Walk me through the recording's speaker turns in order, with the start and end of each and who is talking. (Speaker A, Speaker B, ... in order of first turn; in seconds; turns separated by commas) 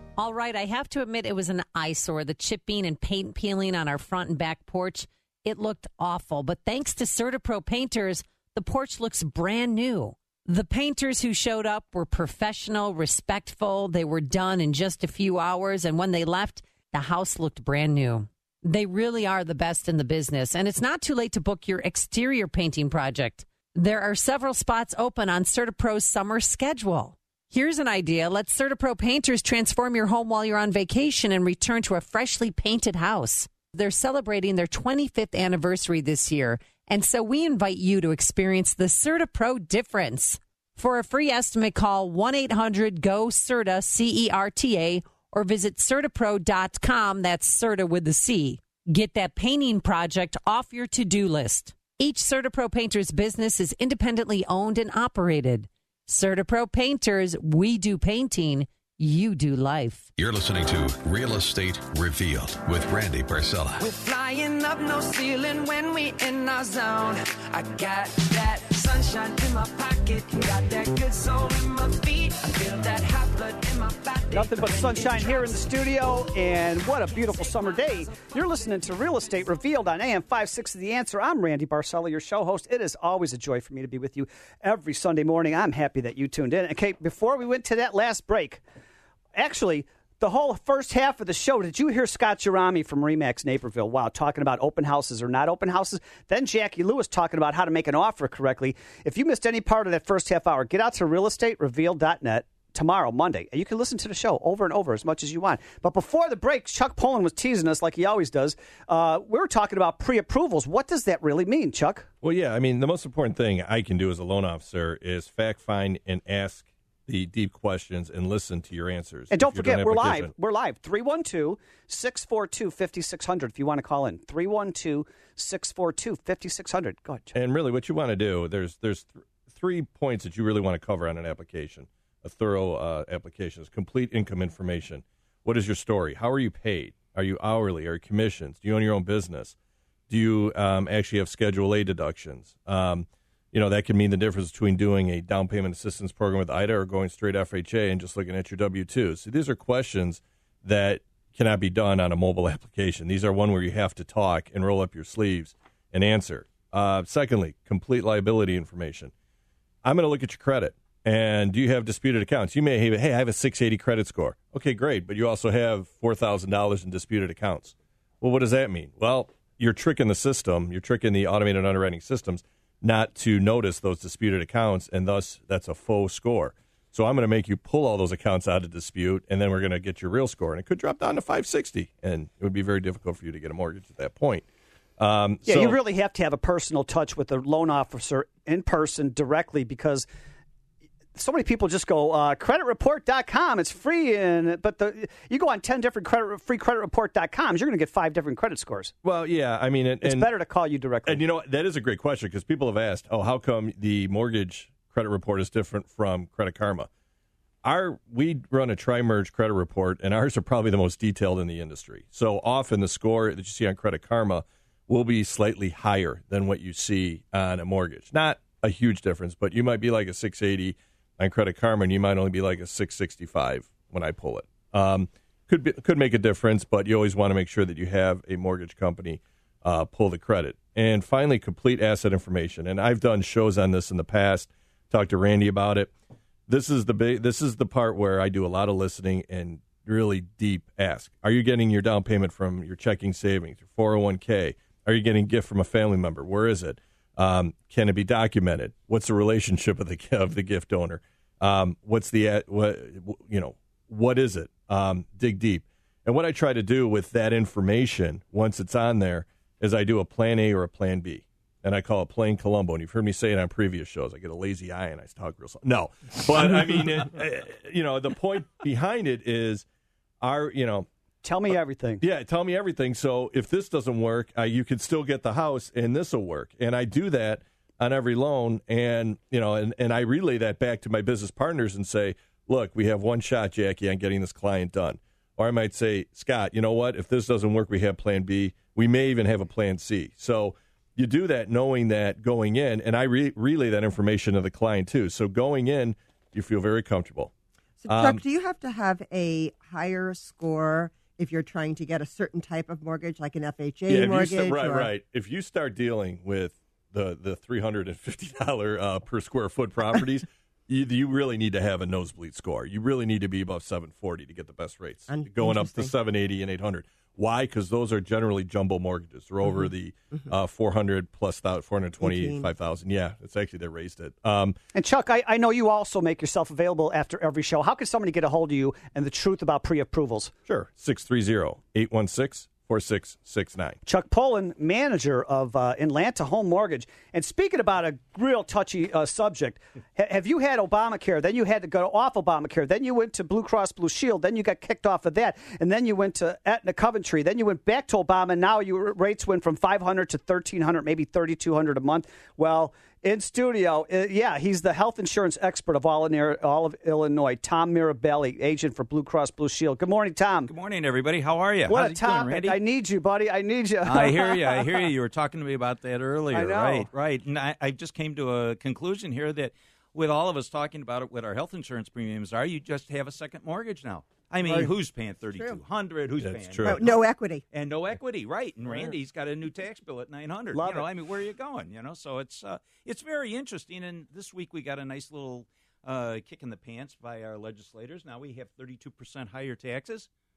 Speaker A: 0.2-60.1, Speaker B: 60.2-63.8, Speaker C: 63.8-79.0, Speaker D: 74.3-88.6, Speaker D: 89.3-112.1, Speaker E: 112.2-120.3, Speaker D: 119.3-127.3, Speaker E: 127.3-139.6, Speaker E: 140.1-159.1, Speaker E: 159.8-184.4, Speaker E: 185.0-185.8, Speaker D: 185.4-190.1, Speaker D: 191.2-198.9, Speaker E: 199.0-200.3, Speaker D: 200.0-201.2, Speaker E: 201.0-206.9, Speaker E: 207.6-235.9, Speaker E: 236.5-269.6, Speaker E: 270.2-270.9, Speaker D: 271.2-272.0, Speaker E: 272.0-297.3, Speaker F: 297.8-304.9, Speaker E: 297.9-298.2, Speaker E: 303.9-324.6, Speaker F: 315.1-315.9, Speaker F: 319.4-320.2, Speaker F: 322.0-322.5, Speaker D: 324.7-330.3, Speaker E: 330.4-333.8, Speaker D: 333.9-360.5, Speaker G: 360.5-362.6, Speaker D: 361.7-364.8, Speaker G: 363.8-377.0, Speaker D: 366.3-366.9, Speaker F: 374.4-374.7, Speaker F: 375.3-375.6, Speaker E: 376.2-376.9, Speaker F: 376.6-377.4, Speaker G: 377.5-390.1, Speaker D: 380.5-380.9